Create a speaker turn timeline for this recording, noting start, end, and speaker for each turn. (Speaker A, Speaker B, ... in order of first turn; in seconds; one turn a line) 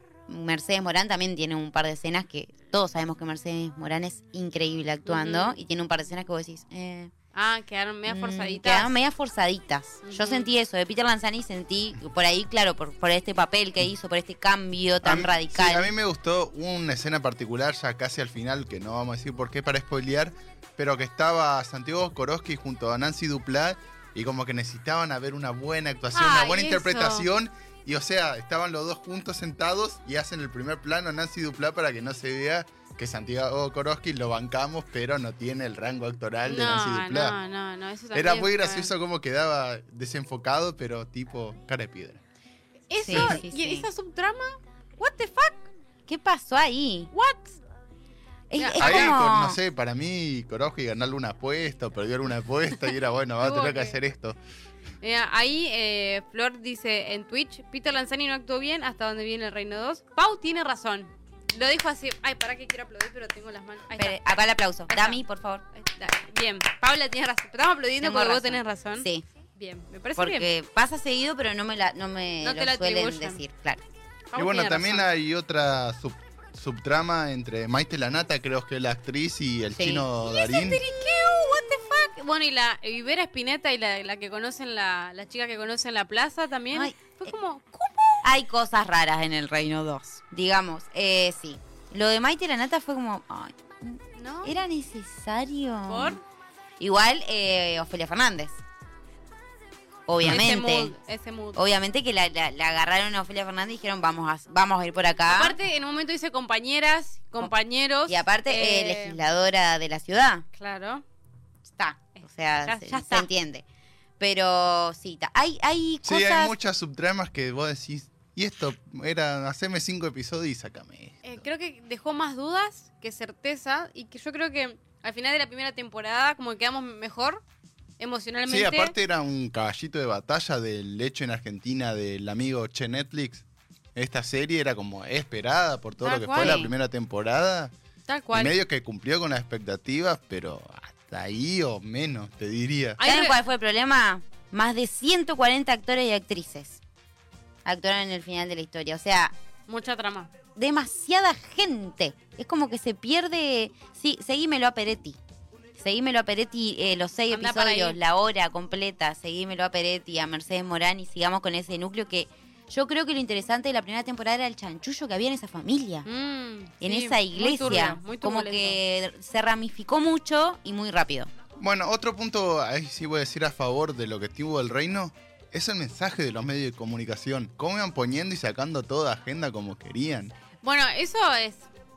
Speaker A: 0.3-7.1
Speaker B: 5.1-5.6
Speaker B: 7.3-8.9
Speaker A: 8.1-15.9
Speaker B: 10.0-10.5
Speaker C: 15.0-37.4
Speaker B: 26.1-27.3
Speaker B: 36.4-38.9
Speaker C: 38.1-42.2
Speaker B: 42.9-45.7
Speaker A: 43.0-43.9
Speaker C: 43.1-43.4
Speaker A: 46.1-47.1
Speaker B: 47.1-47.6
Speaker A: 48.5-49.6
Speaker B: 48.5-49.2
Speaker C: 48.8-54.4
Speaker B: 53.4-54.0
Speaker B: 55.0-64.3
Speaker A: 63.9-65.7
Speaker B: 64.9-65.2
Speaker B: 65.7-70.5
Speaker A: 68.0-69.2
Speaker A: 70.2-73.8
Speaker B: 72.4-73.4
Speaker B: 74.3-75.1
Speaker C: 74.3-80.8
Speaker A: 79.7-80.1
Speaker B: 80.2-88.3
Speaker A: 86.7-87.3
Speaker A: 88.2-96.2
Speaker B: 94.2-94.5
Speaker B: 95.9-96.2
Speaker A: 96.8-98.6
Speaker A: 100.1-100.9
Speaker B: 100.2-101.6
Speaker A: 101.5-105.6
Speaker B: 105.3-109.2
Speaker A: 108.1-110.5
Speaker B: 110.6-111.0
Speaker A: 111.7-113.6
Speaker B: 112.2-113.3
Speaker A: 114.2-116.5
Speaker C: 116.0-121.5
Speaker B: 121.2-127.4
Speaker B: 128.0-128.9
Speaker C: 128.5-137.7
Speaker B: 136.0-136.6
Speaker A: 136.3-136.7
Speaker B: 138.1-138.6
Speaker C: 138.3-143.0
Speaker B: 143.0-143.4
Speaker A: 143.0-146.8
Speaker A: 147.7-149.3
Speaker B: 149.7-150.3
Speaker A: 150.6-155.2
Speaker A: 155.8-166.1
Speaker B: 157.3-158.0
Speaker B: 166.1-168.8
Speaker A: 166.8-171.3
Speaker C: 171.6-180.3
Speaker B: 180.6-181.7